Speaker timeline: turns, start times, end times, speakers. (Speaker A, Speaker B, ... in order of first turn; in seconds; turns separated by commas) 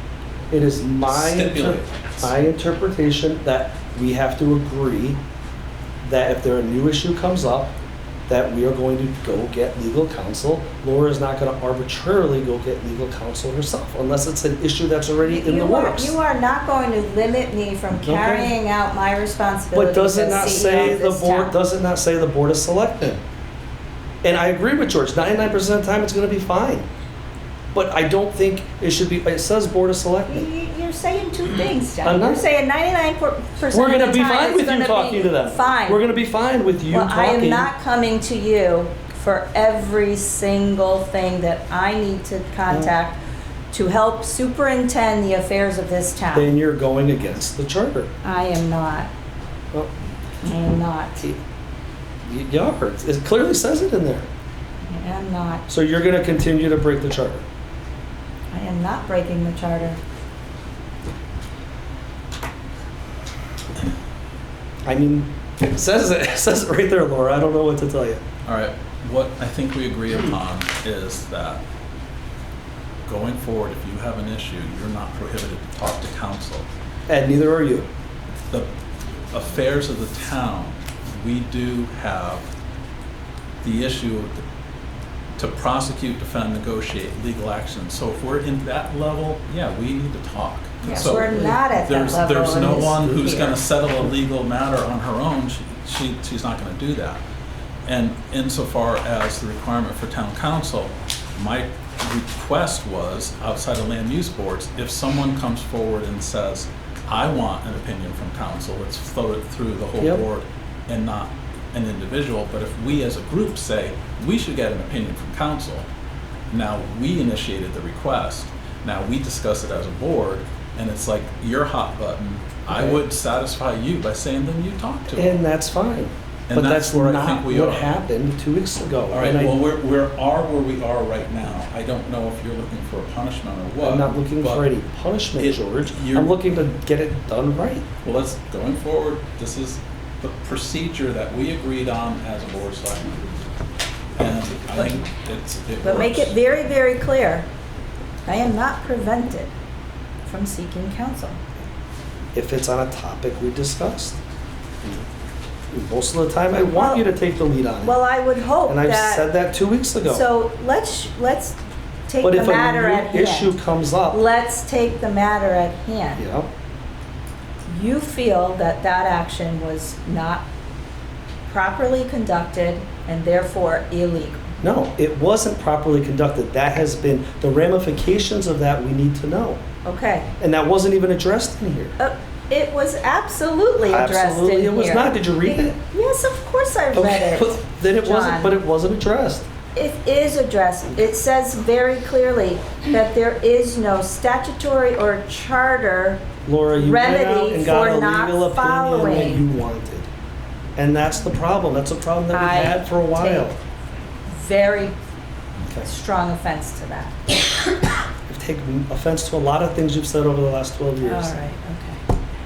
Speaker A: 0.5-5.2, Speaker B: 1.1-2.4, Speaker A: 6.0-7.7, Speaker A: 8.3-16.2, Speaker C: 15.2-21.6, Speaker A: 17.9-18.5, Speaker A: 19.7-23.2, Speaker A: 24.2-26.9, Speaker A: 27.7-30.5, Speaker C: 30.3-36.0, Speaker A: 32.0-32.5, Speaker A: 33.7-37.7, Speaker C: 36.9-43.2, Speaker A: 42.7-42.9, Speaker C: 43.7-46.5, Speaker A: 46.3-48.1, Speaker C: 48.2-49.1, Speaker C: 50.4-51.3, Speaker A: 52.2-54.3, Speaker C: 54.8-55.6, Speaker A: 55.7-57.5, Speaker C: 58.5-60.0, Speaker A: 64.8-68.2, Speaker B: 68.5-71.6, Speaker B: 73.0-76.7, Speaker A: 77.1-77.9, Speaker B: 79.3-82.5, Speaker B: 83.6-84.4, Speaker B: 85.4-97.2, Speaker C: 90.8-93.6, Speaker A: 90.9-91.6, Speaker B: 97.9-115.9, Speaker B: 116.5-125.4, Speaker A: 122.7-123.0, Speaker A: 125.1-129.6, Speaker B: 126.5-128.0, Speaker B: 129.1-134.7, Speaker A: 133.8-137.8, Speaker B: 135.4-136.3, Speaker B: 138.0-143.2, Speaker B: 144.2-146.4, Speaker C: 145.8-147.5, Speaker C: 148.3-149.5, Speaker C: 150.2-151.4, Speaker A: 152.3-154.2, Speaker A: 155.7-157.9, Speaker C: 156.7-157.1, Speaker C: 157.8-159.3, Speaker A: 158.7-160.2, Speaker C: 160.1-163.6, Speaker A: 162.2-164.2, Speaker C: 164.1-166.2, Speaker A: 166.2-166.5, Speaker C: 167.7-170.5, Speaker C: 171.4-174.4, Speaker A: 174.6-179.6, Speaker C: 179.8-180.3, Speaker A: 180.4-182.0, Speaker C: 182.0-185.2, Speaker A: 183.8-185.8, Speaker C: 185.8-188.6, Speaker A: 186.9-189.5, Speaker C: 189.8-199.4, Speaker A: 196.5-200.1, Speaker A: 200.8-203.6, Speaker C: 202.3-203.5, Speaker C: 204.3-204.9, Speaker A: 205.6-205.9, Speaker C: 205.8-207.6, Speaker A: 208.3-211.3, Speaker C: 211.0-212.0